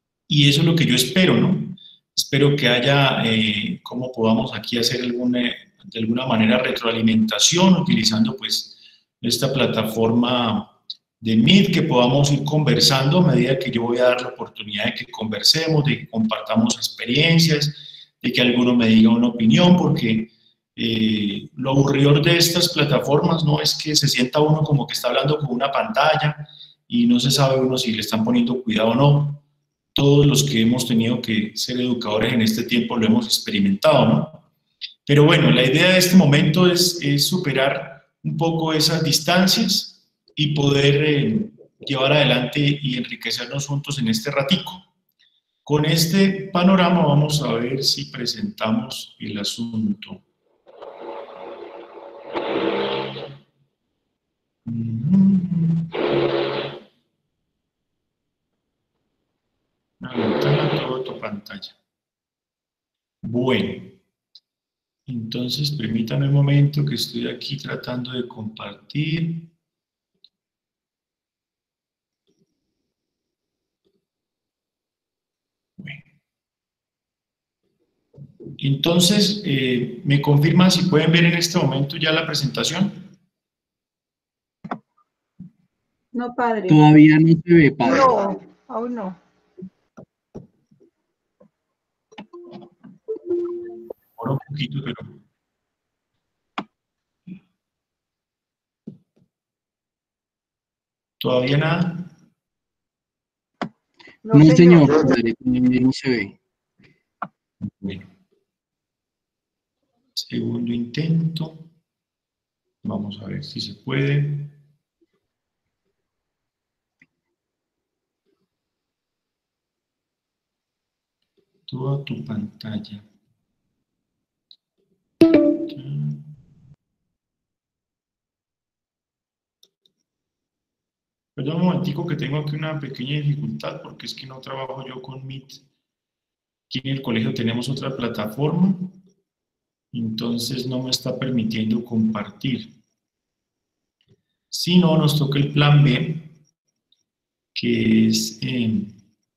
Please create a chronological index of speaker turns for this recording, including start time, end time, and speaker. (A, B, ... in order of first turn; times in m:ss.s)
0:00.3-0:29.4 A
0:30.0-0:34.4 A
0:35.1-0:44.9 A
0:45.6-0:50.2 A
0:54.6-0:56.2 A
1:00.0-1:01.8 A
1:03.2-1:04.0 A
1:05.1-1:09.5 A
1:15.8-1:16.0 A
1:18.6-1:23.1 A
1:26.1-1:26.9 B
1:26.7-1:28.2 C
1:27.8-1:29.2 B
1:34.2-1:35.2 A
1:41.2-1:42.1 A
1:44.2-1:45.2 B
1:44.3-1:46.4 C
1:47.6-1:48.1 A
1:50.2-1:51.7 A
1:52.8-1:54.6 A
2:01.7-2:03.1 A
2:05.5-2:06.3 A
2:11.4-2:15.6 A
2:16.7-2:19.0 A
2:19.9-2:22.7 A
2:24.5-2:26.3 A
2:27.6-2:29.0 A